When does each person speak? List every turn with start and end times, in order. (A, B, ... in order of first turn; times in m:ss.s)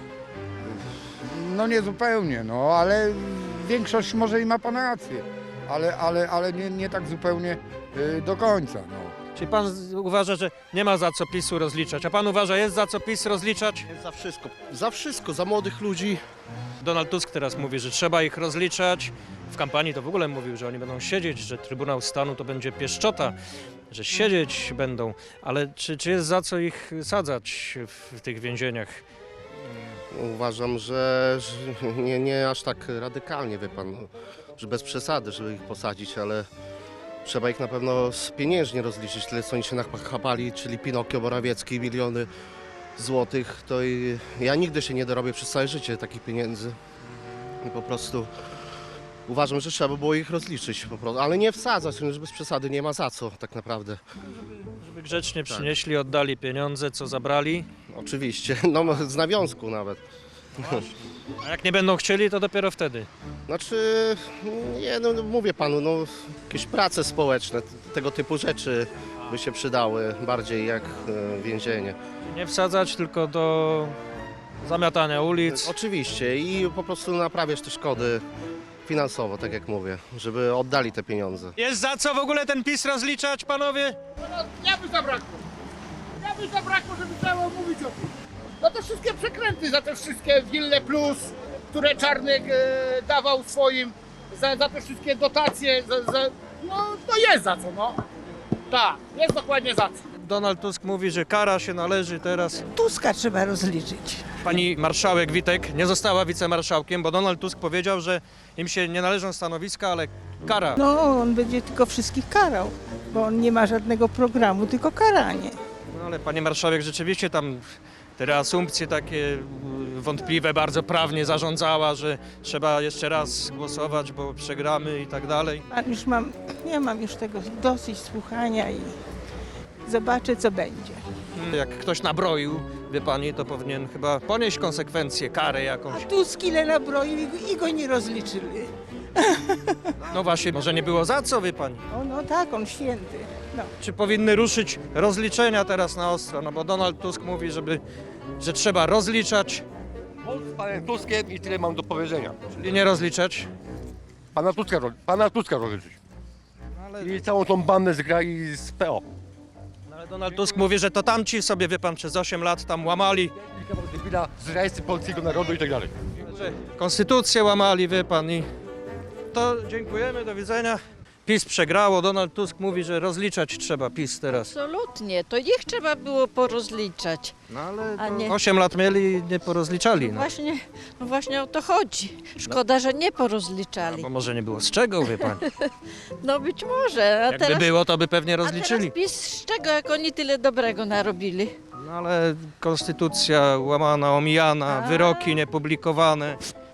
0:00.7-0:09.1 A
0:09.4-0:13.9 B
0:13.9-0:16.2 C
0:16.8-0:23.4 B
0:23.9-0:29.0 B
0:30.1-0:36.5 C
0:37.2-0:42.3 C
0:43.0-0:46.8 C
0:47.6-0:48.3 C
0:49.3-0:54.0 C
0:54.6-0:57.7 B
0:55.5-0:55.8 C
0:57.9-1:00.0 C
1:00.6-1:03.1 B
1:03.5-1:12.0 C
1:12.2-1:14.0 B
1:14.6-1:15.7 B
1:15.5-1:18.2 C
1:18.9-1:21.6 C
1:21.6-1:24.0 B
1:24.3-1:25.4 D
1:26.2-1:28.1 D
1:28.6-1:37.9 D
1:38.7-1:39.9 D
1:40.2-1:42.7 B
1:42.7-1:44.4 E
1:44.4-1:50.8 B
1:50.8-1:55.6 E
1:55.9-1:57.6 B
1:58.2-2:05.6 B
2:05.7-2:09.0 E
2:09.8-2:11.0 E
2:11.4-2:16.1 B
2:15.9-2:18.7 E
2:20.0-2:21.8 B
2:21.9-2:23.7 E
2:23.8-2:27.8 B
2:28.4-2:29.6 B
2:30.2-2:32.4 F
2:32.6-2:33.5 B
2:34.3-2:36.0 F
2:36.8-2:37.3 B
2:37.0-2:39.0 F
2:39.9-2:43.3 B
2:43.6-2:46.1 F
2:46.3-2:48.5 B
2:49.3-2:54.5 B
2:54.5-2:57.3 G
2:57.5-3:00.3 B
2:57.9-2:58.4 G
2:59.9-3:04.1 G
3:03.8-3:05.5 B
3:05.1-3:07.7 G
3:07.3-3:08.9 B
3:08.4-3:11.6 G
3:11.8-3:16.4 B
3:14.7-3:15.4 G